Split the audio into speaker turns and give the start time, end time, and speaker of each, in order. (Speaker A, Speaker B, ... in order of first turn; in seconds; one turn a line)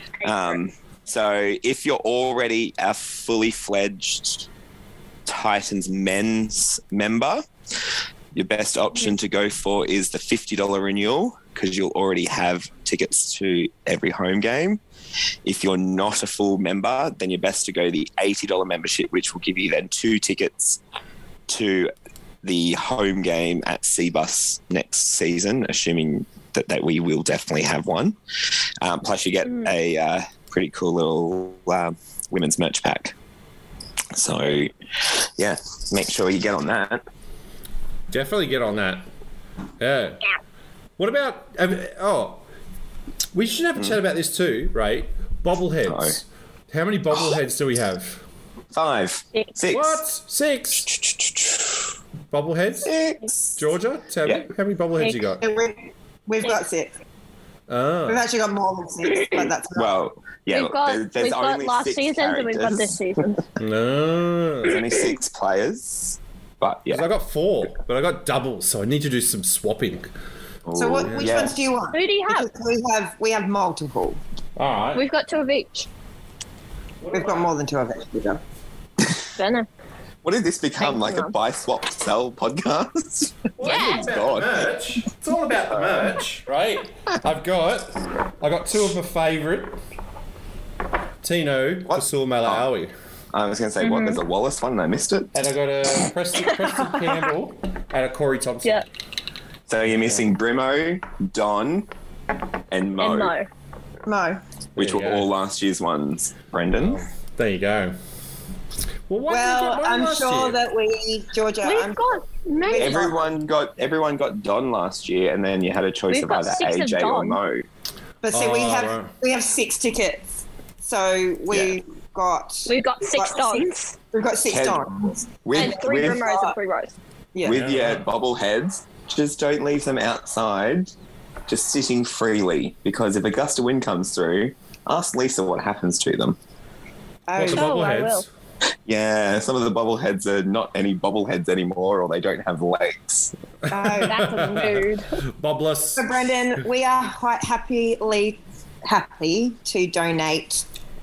Speaker A: 0.2-4.5
Speaker A: 5.3-7.4
Speaker A: 8.3-14.8
Speaker A: 15.4-20.8
Speaker A: 21.5-21.9
Speaker A: 22.4-28.2
Speaker A: 28.8-33.1
Speaker A: 34.1-34.7
Speaker A: 35.4-37.0
Speaker B: 38.1-39.0
Speaker B: 39.8-40.2
Speaker B: 41.0-42.4
Speaker B: 43.3-48.2
Speaker A: 45.9-46.2
Speaker A: 48.7-50.0
Speaker B: 49.7-50.9
Speaker A: 50.9-51.9
Speaker B: 52.3-52.9
Speaker A: 52.8-53.6
Speaker B: 53.6-55.4
Speaker C: 55.4-56.9
Speaker B: 57.7-58.2
Speaker C: 58.1-60.0
Speaker A: 59.8-63.0
Speaker D: 60.5-63.4
Speaker B: 63.6-64.8
Speaker A: 64.6-67.1
Speaker B: 66.9-70.1
Speaker A: 70.7-71.5
Speaker C: 70.8-74.2
Speaker B: 71.0-71.3
Speaker D: 71.9-72.5
Speaker B: 74.6-75.0
Speaker D: 75.0-75.9
Speaker B: 77.0-77.5
Speaker C: 77.1-78.4
Speaker D: 79.4-79.7
Speaker A: 80.2-84.7
Speaker D: 80.8-81.3
Speaker B: 83.6-89.8
Speaker D: 83.6-84.1
Speaker A: 85.7-86.1
Speaker B: 91.2-92.9
Speaker A: 91.8-92.7
Speaker A: 93.3-95.3
Speaker D: 93.8-94.2
Speaker B: 95.3-98.8
Speaker A: 99.7-101.9
Speaker B: 99.8-100.3
Speaker A: 102.7-103.3
Speaker D: 103.0-103.5
Speaker C: 104.1-104.4
Speaker A: 104.8-107.0
Speaker B: 104.8-105.3
Speaker B: 106.8-108.0
Speaker B: 109.1-110.6
Speaker C: 109.3-112.0
Speaker D: 111.6-113.1
Speaker C: 112.6-113.3
Speaker A: 112.7-117.7
Speaker D: 116.1-117.4
Speaker C: 118.2-120.2
Speaker B: 118.3-119.1
Speaker C: 120.8-126.5
Speaker A: 121.5-121.8
Speaker D: 122.7-124.0
Speaker A: 124.5-124.9
Speaker A: 125.4-126.2
Speaker D: 125.5-126.9
Speaker C: 127.3-127.6
Speaker A: 127.4-130.9
Speaker B: 127.5-128.1
Speaker A: 131.5-136.4
Speaker C: 137.3-137.7
Speaker B: 137.4-138.3
Speaker D: 137.5-138.2
Speaker A: 138.9-143.3
Speaker B: 143.7-146.2
Speaker C: 143.7-144.4
Speaker D: 144.0-145.1
Speaker C: 146.0-150.6